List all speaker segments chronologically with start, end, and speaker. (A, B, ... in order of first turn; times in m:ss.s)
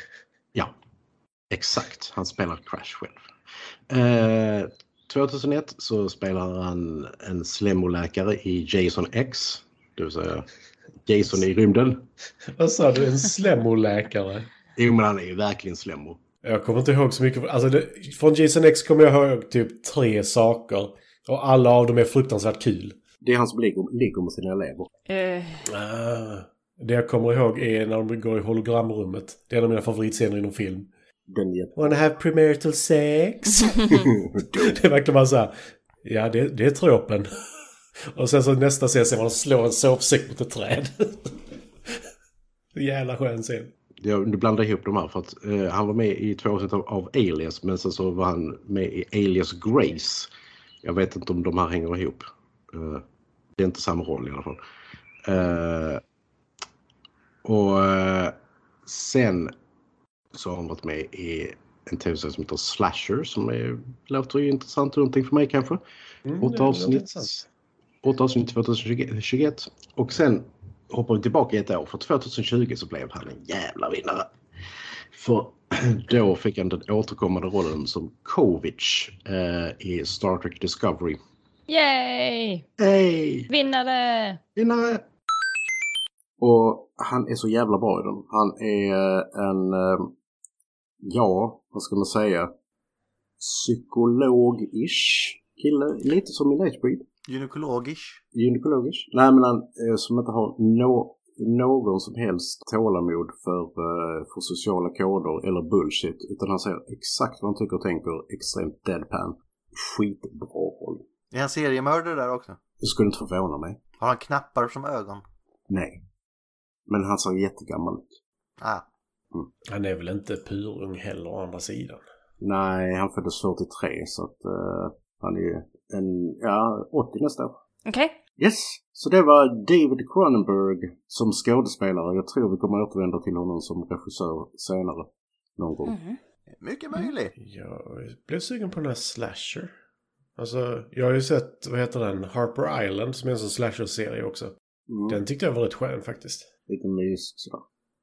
0:01.5-0:03.2 A
0:03.9-0:10.5 A
0:11.0-0:12.1 A
0:12.6-0:14.5 B
0:14.8-0:16.2 A
0:16.4-0:23.0 B
0:23.2-0:24.9 C
0:25.1-0:25.6 D
0:25.6-0:30.9 B
0:31.3-0:32.0 C
0:31.8-0:35.5 B
0:33.9-0:34.8 C
0:36.0-0:37.3 B
0:38.1-0:42.0 B
0:42.7-0:43.7 B
0:44.0-0:50.3 A
0:50.8-0:53.0 A
0:53.6-0:54.6 A
0:55.2-0:56.0 A
0:57.4-0:59.5 A
1:00.3-1:05.8 A
1:06.2-1:07.4 B
1:06.4-1:07.4 A
1:08.0-1:14.3 A
1:15.1-1:21.2 A
1:21.7-1:22.6 D
1:22.8-1:23.5 A
1:23.5-1:24.4 D
1:24.6-1:25.0 A
1:26.4-1:30.1 C
1:31.0-1:32.5 C
1:33.4-1:37.0 C
1:37.3-1:38.2 E
1:38.3-1:51.0 C
1:51.3-1:52.6 E
1:52.8-1:53.8 C
1:54.0-1:55.2 E
1:55.7-1:56.0 C
1:56.9-1:58.1 C
1:59.7-2:02.0 B
2:02.4-2:07.6 C
2:07.8-2:08.2 D
2:08.4-2:15.9 C
2:15.8-2:16.2 D
2:16.6-2:17.3 E
2:17.4-2:19.7 B
2:20.4-2:24.5 B
2:24.9-2:25.2 C
2:25.1-2:26.5 B
2:26.7-2:27.6 C